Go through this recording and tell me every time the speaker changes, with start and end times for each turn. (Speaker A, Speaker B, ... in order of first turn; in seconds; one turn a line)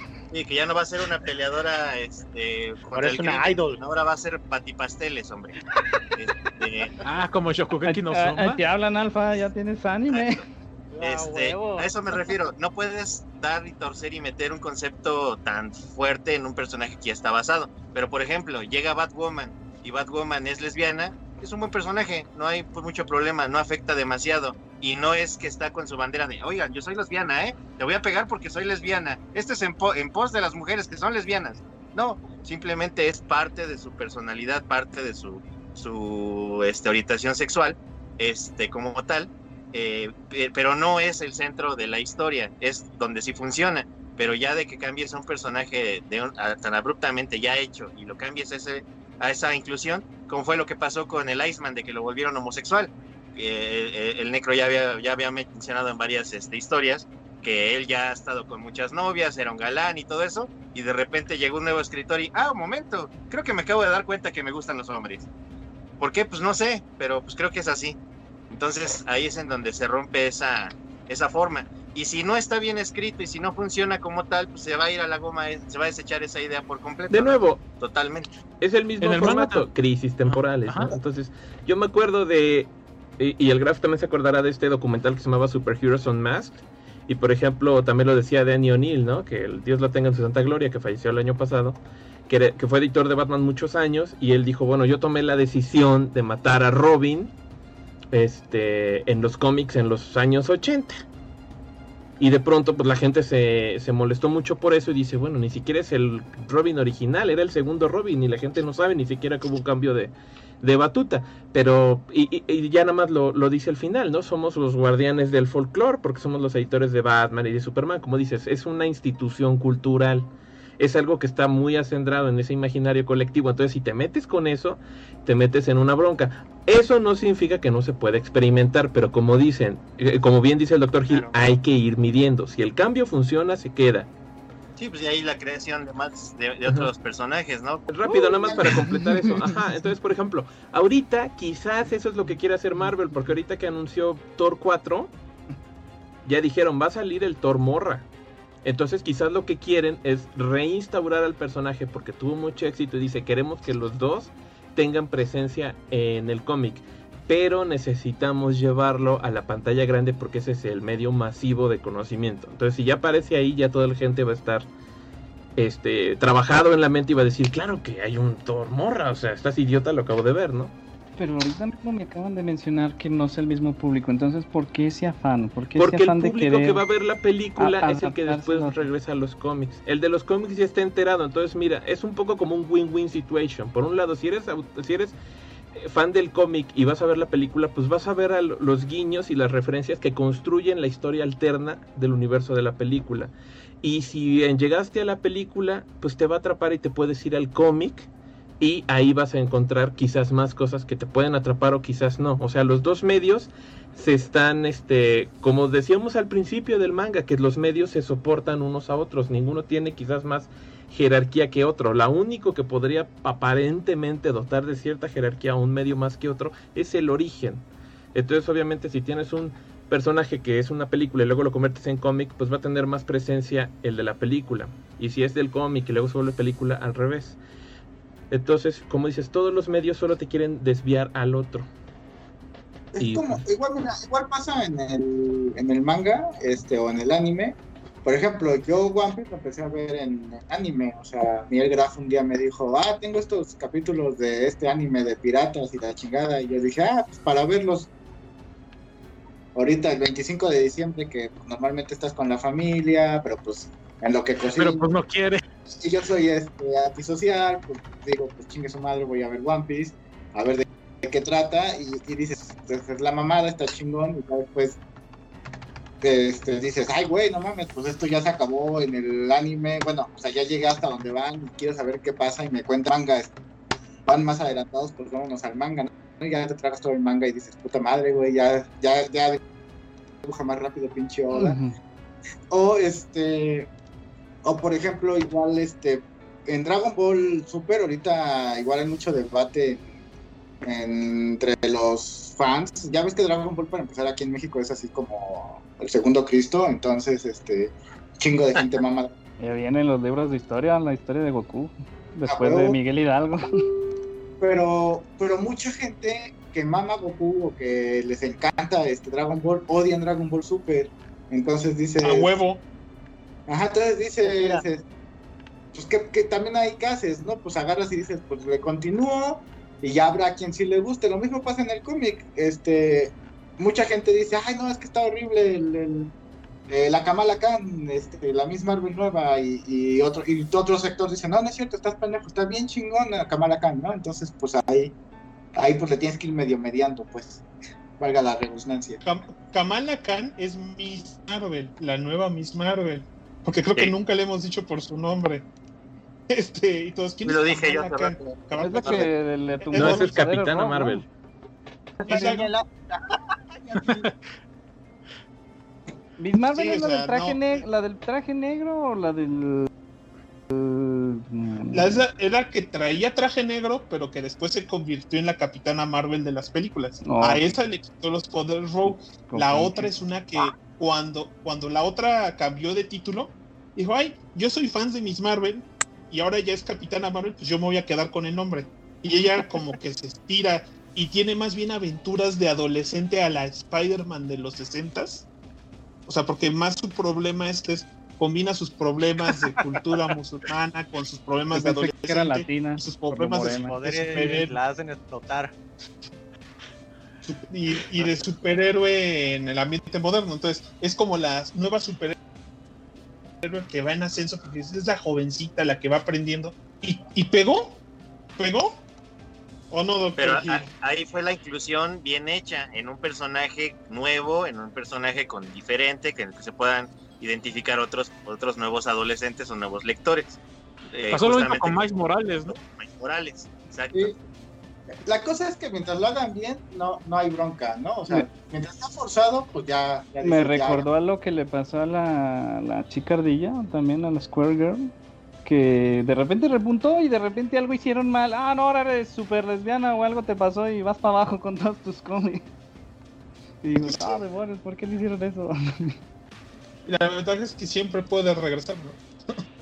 Speaker A: 0.3-5.5
Speaker B: 2.9-3.8
Speaker A: 6.2-6.9
Speaker C: 7.0-8.6
Speaker D: 7.8-10.5
Speaker B: 10.9-12.3
Speaker A: 11.0-65.3
Speaker A: 66.0-68.0
Speaker A: 68.5-78.3
Speaker E: 77.1-77.7
Speaker E: 78.6-97.3
Speaker C: 79.0-79.7
Speaker C: 80.2-81.0
Speaker E: 98.1-101.0
Speaker E: 102.2-134.1
Speaker A: 134.8-137.9
Speaker E: 136.7-136.9
Speaker E: 137.9-145.1
Speaker F: 138.1-139.4
Speaker D: 138.6-139.4
Speaker E: 146.2-148.1
Speaker E: 148.6-164.7
Speaker E: 165.6-170.7
Speaker D: 171.2-176.8
Speaker E: 175.8-185.2
Speaker D: 177.6-178.9
Speaker E: 185.8-198.1
Speaker E: 198.6-227.4
Speaker E: 228.3-231.7
Speaker F: 232.9-247.9
Speaker E: 233.0-233.4
Speaker F: 249.6-254.9
Speaker C: 254.6-255.4
Speaker F: 255.8-264.8
Speaker F: 266.0-273.4
Speaker F: 274.1-279.4
Speaker F: 280.2-281.6
Speaker D: 281.3-281.7
Speaker F: 282.5-283.7
Speaker F: 284.4-289.9
Speaker F: 290.6-299.1
Speaker D: 299.4-303.4
Speaker F: 302.3-302.8
Speaker F: 304.4-312.3
Speaker G: 312.0-312.6
Speaker F: 313.5-314.9
Speaker B: 314.2-314.6
Speaker F: 315.7-326.1
Speaker F: 326.7-335.0
Speaker F: 335.6-337.4
Speaker F: 338.0-339.0
Speaker G: 339.0-345.5
Speaker G: 346.3-349.1
Speaker A: 347.2-348.2
Speaker D: 348.6-351.1
Speaker G: 349.7-350.1
Speaker E: 349.8-351.1
Speaker B: 352.0-352.9
Speaker G: 352.1-352.5
Speaker B: 353.7-354.0
Speaker F: 353.7-354.1
Speaker D: 356.2-359.7
Speaker G: 356.5-357.6
Speaker D: 360.5-362.0
Speaker G: 361.7-385.3
Speaker D: 367.0-367.5
Speaker D: 369.3-369.9
Speaker G: 386.1-394.6
Speaker D: 391.5-394.3
Speaker B: 393.6-395.5
Speaker G: 397.2-402.2
Speaker G: 403.4-407.8
Speaker G: 408.4-408.8
Speaker G: 409.7-410.7
Speaker A: 410.2-420.4
Speaker A: 420.9-424.2
Speaker C: 421.1-422.6
Speaker F: 425.0-430.9
Speaker D: 430.2-434.9
Speaker D: 435.4-442.4
Speaker D: 443.6-446.0
Speaker G: 443.8-444.2
Speaker G: 446.9-449.0